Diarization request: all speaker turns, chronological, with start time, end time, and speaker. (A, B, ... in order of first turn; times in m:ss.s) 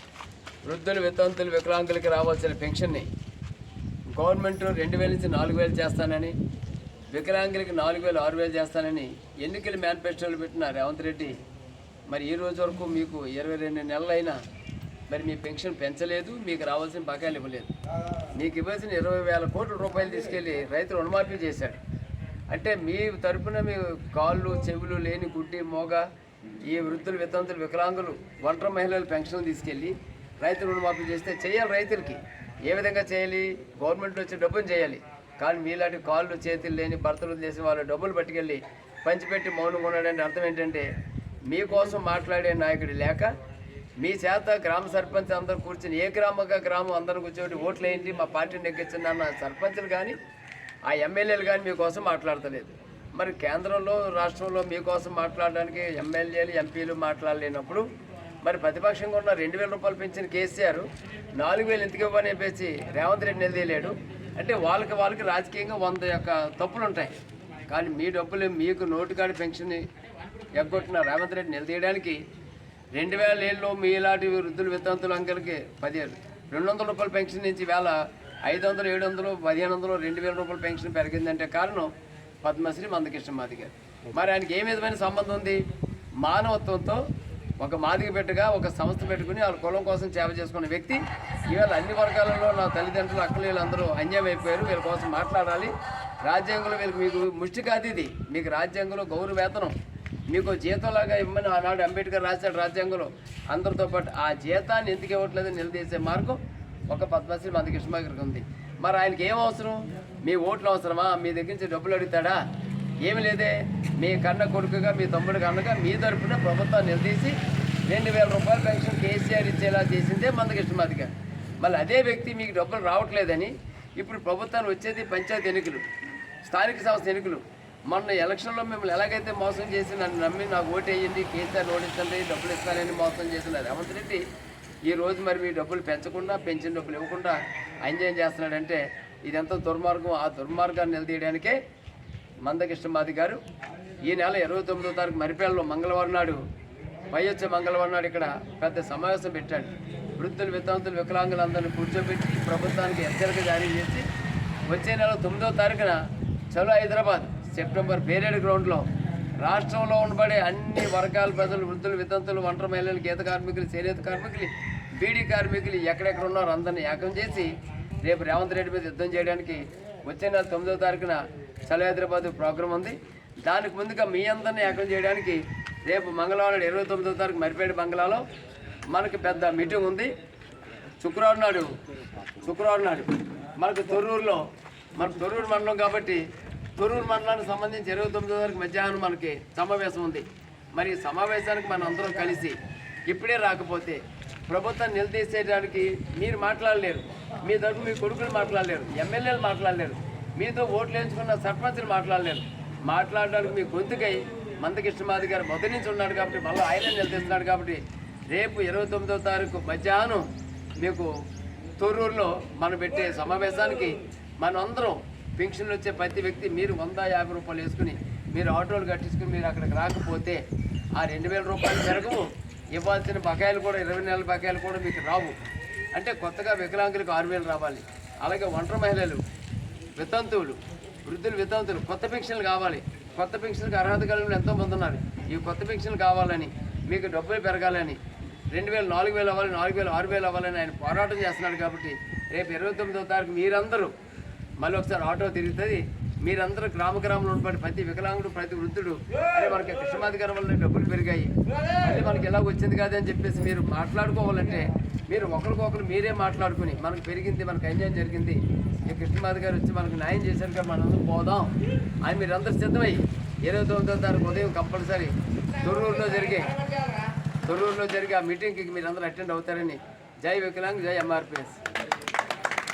0:00.6-0:03.1 A
0:04.1-0:06.3 A
0:07.1-0:11.4 A
0:12.1-0:14.4 A
0:15.1-0:17.7 A
0:18.3-0:21.8 A
0:22.5-0:26.0 A
0:26.6-0:40.9 A
0:41.5-0:43.4 A
0:44.0-0:50.2 A
0:50.8-0:57.9 A
0:58.4-1:07.1 A
1:07.7-1:09.9 A
1:10.5-1:12.2 A
1:12.9-1:21.9 A
1:22.4-1:25.6 A
1:26.2-1:27.0 A
1:27.6-1:39.7 A
1:40.3-1:52.4 A
1:53.0-1:57.4 A
1:57.9-2:05.8 A
2:06.4-2:14.2 A
2:14.8-2:21.6 A
2:22.4-2:23.4 A
2:24.0-2:26.4 A
2:27.1-2:34.1 A
2:34.7-2:38.9 A
2:39.4-2:58.2 A
2:58.9-3:00.1 A
3:01.0-3:01.7 A
3:02.4-3:06.2 A
3:06.8-3:12.6 A
3:13.1-3:30.2 A
3:30.8-3:31.1 A
3:31.8-3:40.4 A
3:40.9-3:45.4 A
3:45.9-3:49.2 A
3:50.0-3:58.0 A
3:58.5-4:03.9 A
4:04.6-4:26.8 A
4:27.4-4:31.6 A